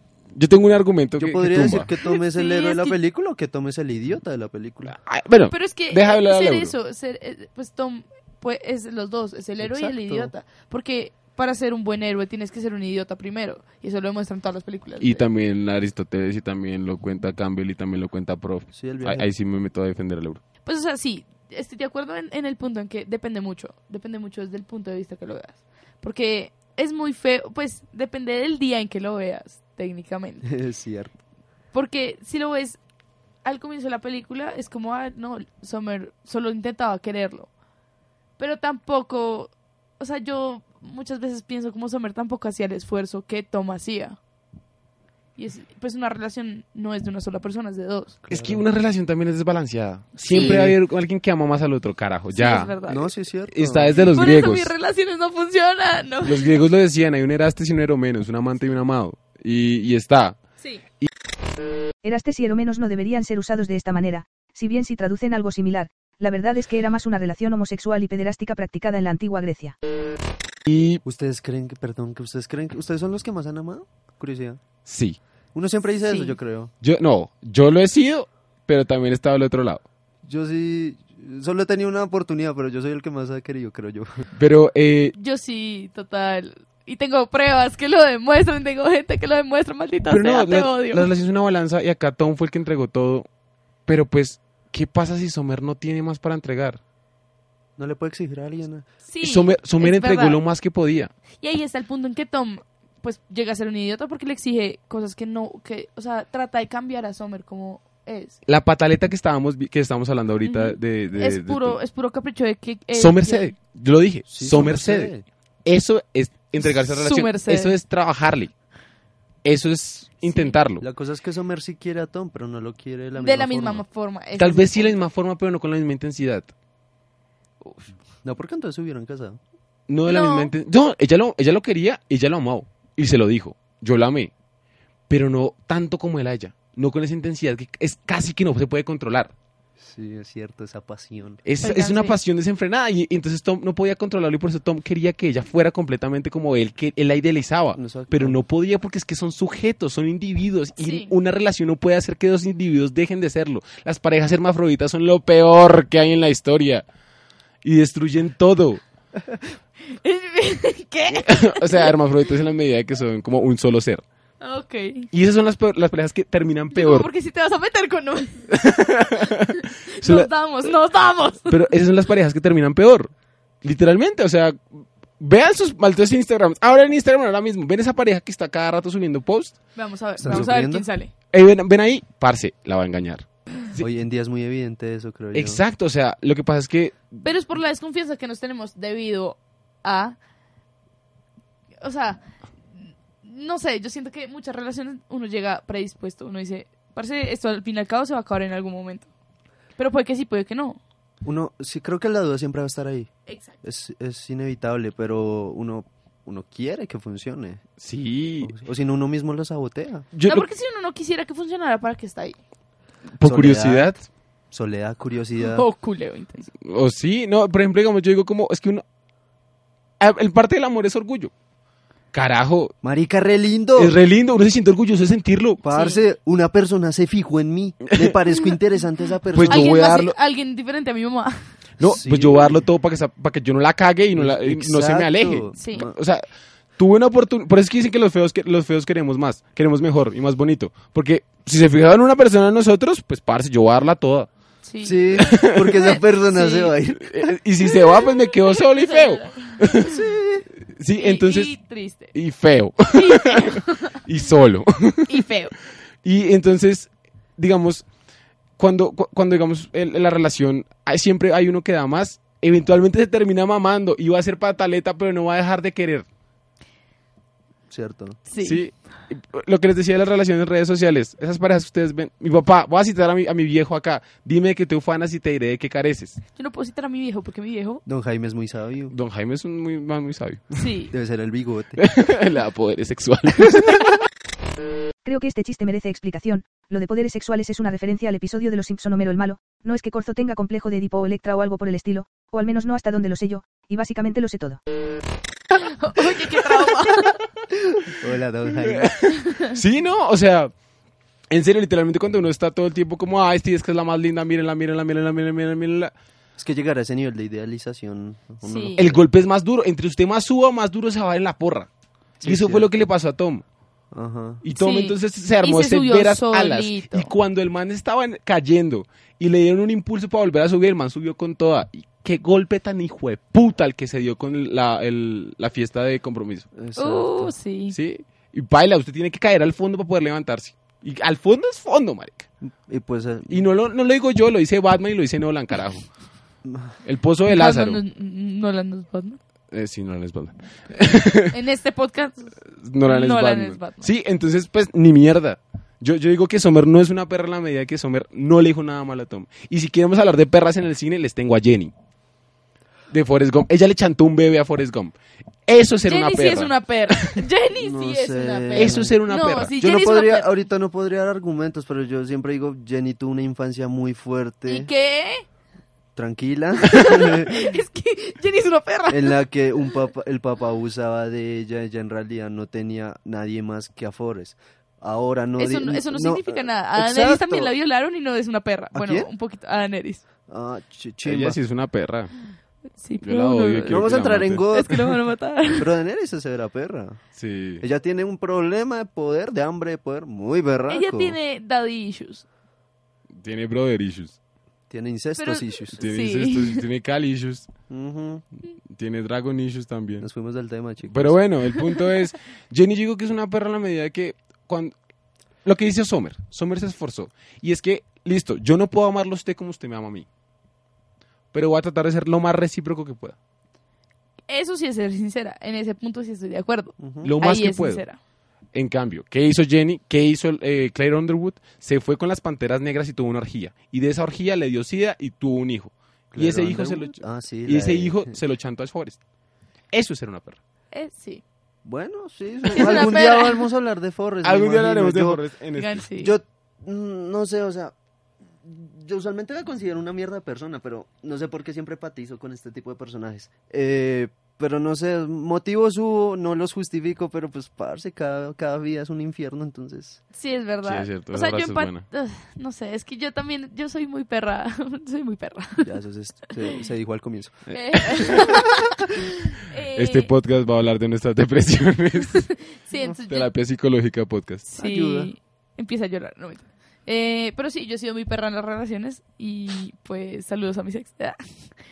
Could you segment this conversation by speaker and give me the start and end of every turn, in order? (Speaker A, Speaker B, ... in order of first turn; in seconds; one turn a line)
Speaker A: 0.3-1.9
Speaker B: 1.2-5.0
Speaker C: 2.0-3.0
Speaker A: 4.8-6.7
Speaker C: 5.5-15.2
Speaker B: 9.6-10.3
Speaker A: 15.0-20.4
Speaker B: 18.7-19.3
Speaker C: 20.6-30.5
Speaker B: 30.4-31.1
Speaker C: 31.7-32.8
Speaker C: 33.4-37.5
Speaker C: 38.4-44.2
Speaker C: 45.4-48.2
Speaker B: 48.2-48.6
Speaker A: 48.3-52.7
Speaker C: 50.3-50.6
Speaker B: 50.3-50.8
Speaker C: 52.3-53.1
Speaker B: 52.9-53.9
Speaker A: 53.5-54.7
Speaker C: 53.9-56.6
Speaker A: 56.2-60.4
Speaker D: 62.0-69.8
Speaker A: 70.7-71.0
Speaker B: 71.0-74.6
Speaker A: 74.8-75.2
Speaker B: 75.5-76.7
Speaker C: 76.0-76.3
Speaker A: 76.8-79.8
Speaker B: 80.2-84.2
Speaker A: 84.3-85.1
Speaker C: 85.2-91.1
Speaker A: 90.1-93.3
Speaker A: 93.9-96.8
Speaker B: 97.8-98.9
Speaker C: 99.0-100.4
Speaker A: 99.2-101.1
Speaker C: 101.4-108.4
Speaker A: 108.5-111.8
Speaker C: 110.4-113.5
Speaker A: 112.9-115.1
Speaker B: 114.3-115.2
Speaker A: 115.6-118.5
Speaker C: 116.6-117.8
Speaker A: 119.4-120.8
Speaker C: 120.2-120.5
Speaker B: 120.8-123.8
Speaker C: 123.2-125.0
Speaker A: 124.4-126.5
Speaker C: 127.6-127.9
Speaker B: 128.2-129.4
Speaker A: 129.9-134.3
Speaker C: 130.1-130.5
Speaker A: 135.1-139.3
Speaker B: 139.8-141.4
Speaker A: 141.4-156.8
Speaker C: 141.6-142.2
Speaker B: 147.7-148.4
Speaker C: 150.8-151.1
Speaker A: 157.6-158.8
Speaker C: 159.9-161.9
Speaker A: 161.1-164.0
Speaker C: 164.4-165.1
Speaker A: 165.1-167.1
Speaker C: 166.7-171.7
Speaker A: 168.5-170.3
Speaker A: 171.5-173.1
Speaker A: 173.6-179.6
Speaker C: 179.7-181.1
Speaker B: 180.2-180.9
Speaker A: 181.3-183.8
Speaker B: 183.8-185.6
Speaker A: 185.3-187.2
Speaker C: 187.2-190.2
Speaker C: 191.8-199.1
Speaker C: 199.8-200.8
Speaker B: 201.2-203.1
Speaker C: 203.3-203.6
Speaker B: 203.6-207.6
Speaker A: 207.8-208.5
Speaker B: 208.4-210.1
Speaker A: 210.1-210.4
Speaker C: 210.2-212.4
Speaker A: 213.1-214.0
Speaker B: 213.2-214.0
Speaker B: 214.5-215.7
Speaker C: 215.4-216.5
Speaker A: 216.6-218.8
Speaker A: 220.0-221.3
Speaker A: 222.1-222.7
Speaker B: 222.8-223.9
Speaker A: 223.8-225.6
Speaker B: 225.6-229.8
Speaker C: 225.6-226.0
Speaker A: 227.9-228.1
Speaker A: 229.3-230.1
Speaker C: 229.3-231.5
Speaker A: 231.8-236.2
Speaker B: 231.8-232.6
Speaker B: 234.1-235.9
Speaker C: 235.6-235.9
Speaker A: 236.8-244.3
Speaker C: 244.6-246.7
Speaker B: 244.8-247.4
Speaker A: 245.3-245.6
Speaker A: 247.0-249.9
Speaker C: 247.7-249.8
Speaker B: 249.8-250.4
Speaker A: 250.7-251.5
Speaker C: 251.0-252.1
Speaker A: 252.1-255.2
Speaker C: 252.9-254.0
Speaker C: 255.1-255.5
Speaker A: 256.0-257.9
Speaker A: 258.6-266.1
Speaker B: 267.7-268.2
Speaker C: 268.3-268.6
Speaker A: 268.4-276.2
Speaker C: 276.4-277.8
Speaker B: 277.9-278.9
Speaker A: 278.9-280.6
Speaker C: 280.5-280.9
Speaker B: 280.9-281.8
Speaker A: 281.8-283.9
Speaker D: 285.0-294.6
Speaker C: 295.5-297.2
Speaker B: 297.5-298.9
Speaker A: 298.6-300.5
Speaker A: 301.3-305.9
Speaker B: 306.4-309.0
Speaker C: 308.4-308.8
Speaker A: 308.8-311.7
Speaker B: 312.2-312.7
Speaker A: 312.2-313.4
Speaker B: 313.9-314.4
Speaker A: 314.4-326.5
Speaker C: 314.6-317.1
Speaker B: 326.5-327.3
Speaker C: 326.8-327.8
Speaker A: 327.7-332.3
Speaker B: 332.6-333.4
Speaker A: 333.3-335.9
Speaker B: 336.4-336.7
Speaker A: 336.8-337.8
Speaker C: 337.2-339.2
Speaker A: 339.5-341.3
Speaker C: 341.3-343.9
Speaker A: 342.5-351.7
Speaker A: 352.9-356.5
Speaker C: 355.9-360.4
Speaker B: 357.6-359.0
Speaker A: 358.5-359.5
Speaker B: 359.5-364.7
Speaker C: 364.5-365.2
Speaker B: 365.9-367.6
Speaker C: 366.6-369.2
Speaker B: 368.9-377.5
Speaker C: 375.4-380.0
Speaker B: 378.7-379.1
Speaker B: 380.3-381.4
Speaker A: 381.0-382.1
Speaker C: 382.8-383.8
Speaker A: 383.0-384.5
Speaker B: 383.7-385.0
Speaker C: 384.5-385.7
Speaker B: 385.5-387.0
Speaker A: 387.1-387.6
Speaker B: 387.6-391.2
Speaker C: 390.7-392.2
Speaker A: 393.2-394.2
Speaker B: 394.7-395.8
Speaker C: 395.2-396.6
Speaker A: 395.8-397.5
Speaker B: 397.7-398.2
Speaker A: 398.7-400.1
Speaker B: 400.0-401.2
Speaker A: 400.8-404.7
Speaker A: 405.4-410.1
Speaker A: 411.3-413.1
Speaker C: 414.3-418.0
Speaker B: 416.8-417.1
Speaker A: 417.0-417.8
Speaker A: 418.5-429.0
Speaker B: 426.1-428.2
Speaker A: 429.7-430.4
Speaker C: 430.7-431.2
Speaker B: 431.6-435.2
Speaker C: 432.5-433.5
Speaker A: 434.2-435.8
Speaker C: 435.6-436.1
Speaker B: 435.9-437.7
Speaker B: 438.4-450.0
Speaker C: 450.1-455.7
Speaker A: 450.6-451.8
Speaker B: 455.6-457.4
Speaker A: 457.5-458.2
Speaker C: 457.5-458.6
Speaker C: 459.4-460.1
Speaker A: 459.7-462.3
Speaker C: 462.1-463.3
Speaker A: 463.1-464.5
Speaker C: 464.5-471.5
Speaker B: 464.5-465.1